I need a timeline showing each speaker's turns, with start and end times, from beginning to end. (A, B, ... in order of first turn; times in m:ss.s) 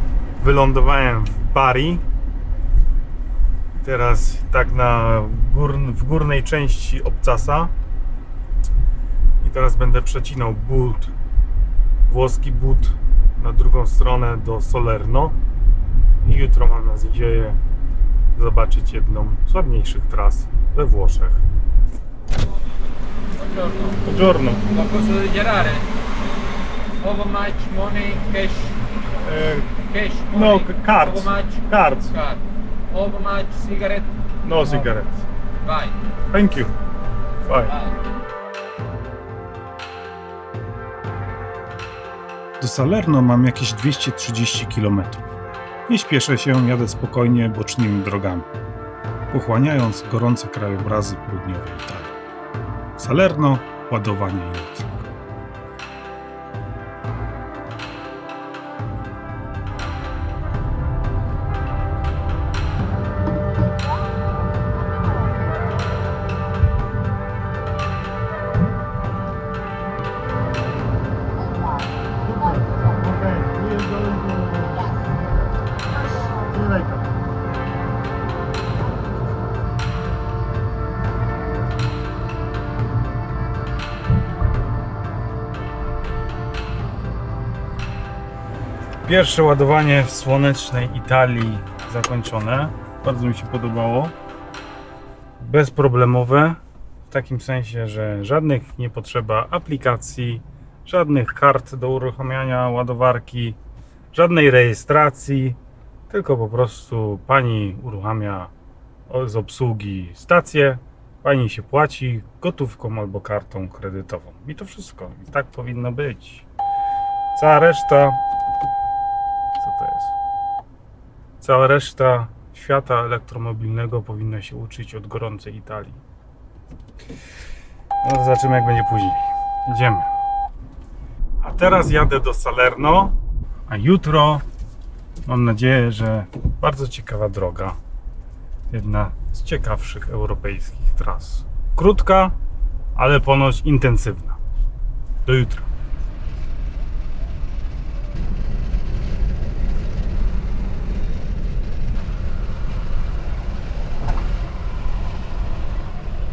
0:00.4-0:02.0 A
0:03.8-0:07.7 A
0:09.4-0:11.1 A
0:12.1-0:15.4 A
0:16.2-0:17.6 A
0:18.4-0:21.4 A
0:23.4-0:24.0 B
0:24.0-0:24.6 A
0:24.7-0:25.9 B
0:27.0-0:28.8 B
0:29.2-0:29.7 A
0:29.7-0:34.1 B
0:30.3-0:32.1 A
0:34.4-0:35.2 A
0:34.6-0:34.9 B
0:35.6-0:36.0 B
0:36.3-0:36.7 A
0:37.4-0:37.8 A
0:42.6-0:45.2 A
0:45.9-0:48.5 A
0:49.3-0:52.2 A
0:53.0-0:55.1 A
1:12.5-1:14.8 A
1:16.6-1:16.9 A
1:29.0-1:34.1 A
1:35.4-1:43.6 A
1:44.1-1:45.6 A
1:46.1-1:48.5 A
1:49.1-1:56.4 A
1:57.3-1:58.2 A
1:59.6-2:00.1 A
2:01.4-2:06.0 A
2:08.0-2:10.1 A
2:11.4-2:13.2 A
2:13.7-2:14.4 A
2:15.2-2:17.8 A
2:18.7-2:22.4 A
2:22.9-2:24.4 A
2:25.2-2:25.7 A